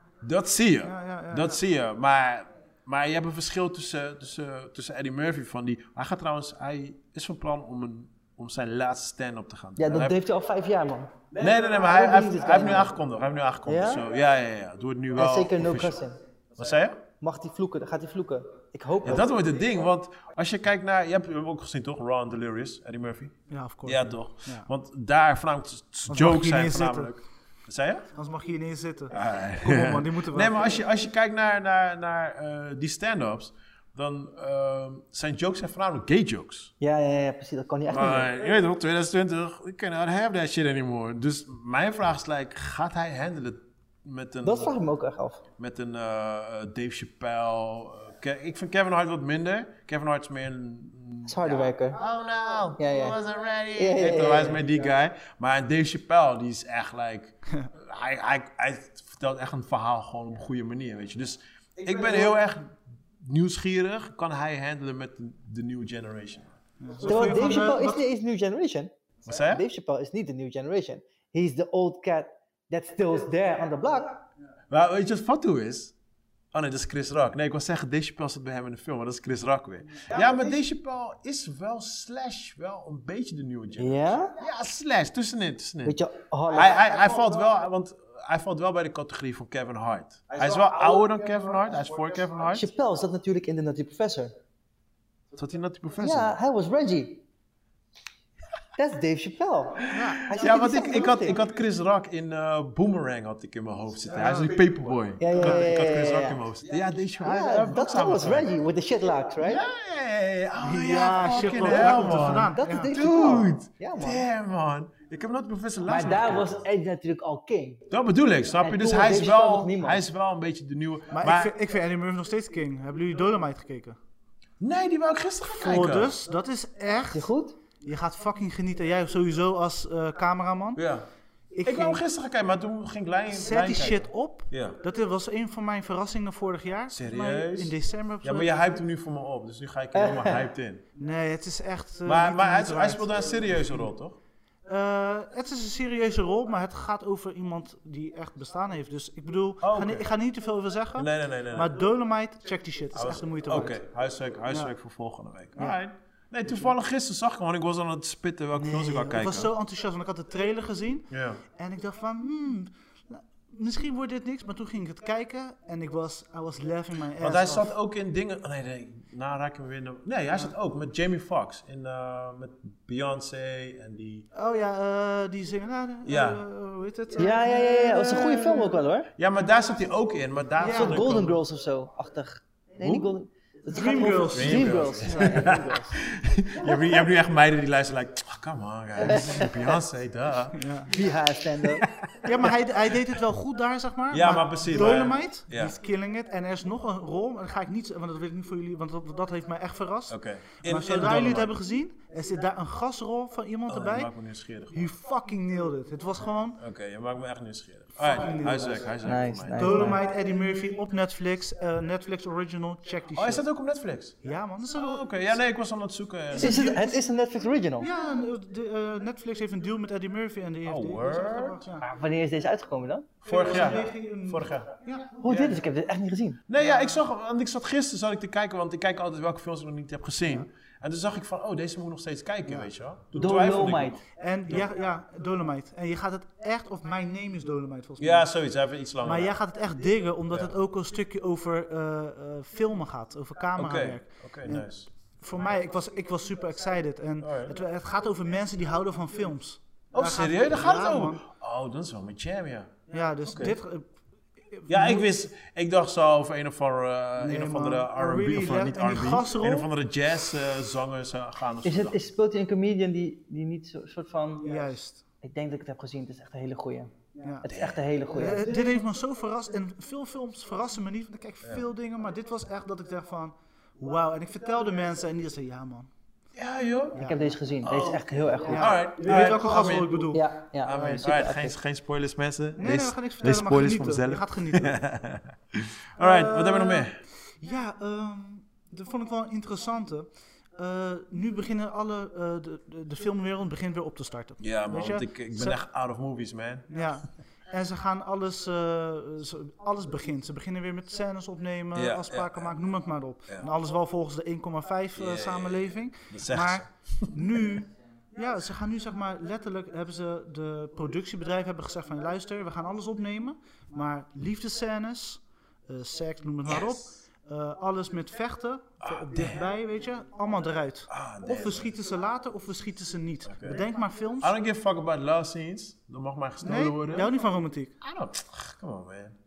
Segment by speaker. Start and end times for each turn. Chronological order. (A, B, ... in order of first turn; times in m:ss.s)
0:00.2-0:10.2 A
0:00.8-0:01.6 B
0:09.8-0:12.9 C
0:11.3-0:16.0 A
0:13.6-0:14.0 C
0:15.2-0:16.2 C
0:16.6-0:17.0 A
0:17.2-0:19.3 C
0:19.0-0:28.1 A
0:23.5-0:24.7 B
0:26.1-0:27.1 B
0:28.1-0:30.8 B
0:29.1-0:36.7 A
0:36.8-0:38.3 C
0:37.9-0:44.8 A
0:44.4-0:45.4 C
0:45.6-1:07.6 A
0:51.3-0:52.0 C
0:52.8-0:53.2 C
0:53.8-0:54.6 C
1:06.8-1:08.0 B
1:07.0-1:08.9 C
1:09.2-1:09.6 A
1:09.5-1:14.2 C
1:14.7-1:15.9 A
1:16.5-1:26.0 A
1:23.8-1:24.4 C
1:25.8-1:26.8 C
1:26.5-1:32.7 A
1:32.5-1:34.3 C
1:35.3-1:36.3 A
1:36.0-1:37.2 C
1:38.8-1:41.4 C
1:39.8-1:48.5 A
1:39.9-1:40.3 B
1:45.2-1:46.4 C
1:45.3-1:45.6 B
1:47.2-1:49.6 C
1:49.4-1:56.6 A
1:50.6-1:52.9 B
1:51.2-1:54.2 C
1:55.9-1:57.8 C
1:57.9-2:01.5 A
1:58.6-2:00.0 C
2:01.1-2:04.0 B
2:04.6-2:06.1 A
2:05.5-2:07.3 B
2:07.1-2:07.6 C
2:07.8-2:10.8 B
2:10.8-2:11.0 A
2:11.5-2:12.0 B
2:11.6-2:14.8 A
2:13.3-2:18.5 B
2:16.9-2:20.8 A
2:19.9-2:20.5 C
2:21.0-2:23.8 B
2:22.0-2:24.2 A
2:24.7-2:33.8 B
2:29.6-2:30.0 A
2:31.0-2:31.7 A
2:32.9-2:39.5 A
2:38.6-2:47.7 B
2:41.1-2:41.4 A
2:47.2-2:54.3 A
2:54.3-2:58.5 B
2:56.0-2:56.4 A
2:57.2-2:59.1 C
2:57.9-3:01.4 A
3:00.6-3:01.3 B
3:00.6-3:06.0 C
3:02.8-3:03.1 A
3:03.7-3:05.4 B
3:04.3-3:10.7 A
3:06.6-3:06.9 C
3:09.0-3:09.8 C
3:10.5-3:10.9 B
3:10.9-3:11.9 C
3:11.8-3:12.3 A
3:12.2-3:24.1 B
3:14.1-3:15.7 A
3:20.1-3:21.5 A
3:23.7-3:24.9 A
3:24.7-3:26.6 B
3:26.6-3:30.0 A
3:28.0-3:28.9 B
3:29.0-3:30.0 C
3:29.6-3:33.4 B
3:33.1-3:34.2 A
3:34.2-3:35.0 B
3:34.8-3:36.7 A
3:36.3-3:37.0 B
3:36.3-3:37.9 C
3:37.8-3:41.8 B
3:40.6-3:41.6 A
3:41.8-3:43.1 C
3:43.2-3:44.7 A
3:43.2-3:45.2 B
3:45.2-3:46.4 C
3:45.2-3:45.6 A
3:46.5-3:54.6 A
3:46.6-3:47.0 B
3:53.2-3:54.0 C
3:54.1-3:58.3 B
3:58.0-3:59.3 A
3:59.0-4:04.7 B
4:03.6-4:04.9 A
4:05.2-4:11.2 B
4:07.2-4:07.5 A
4:09.9-4:12.7 A
4:12.9-4:13.8 B
4:13.2-4:13.6 A
4:14.4-4:15.1 B
4:14.7-4:22.0 A
4:17.2-4:19.7 B
4:21.6-4:24.7 C
4:24.4-4:25.0 B
4:25.2-4:28.7 C
4:27.2-4:27.5 B
4:27.5-4:27.8 A
4:28.1-4:35.9 B
4:36.3-4:37.1 A
4:36.9-4:37.3 B
4:37.0-4:39.2 C
4:37.6-4:40.1 A
4:38.4-4:40.2 B
4:40.1-4:41.5 C
4:40.6-4:47.0 A
4:42.6-4:44.7 B
4:46.0-4:55.6 B
4:54.4-4:56.7 A
4:56.7-5:24.4 B
5:01.7-5:02.5 A
5:04.9-5:07.2 A
5:18.8-5:19.4 A
5:20.9-5:21.7 A
5:23.2-5:23.6 A
5:24.2-5:27.1 A
5:26.4-5:27.7 B
5:27.8-5:29.2 A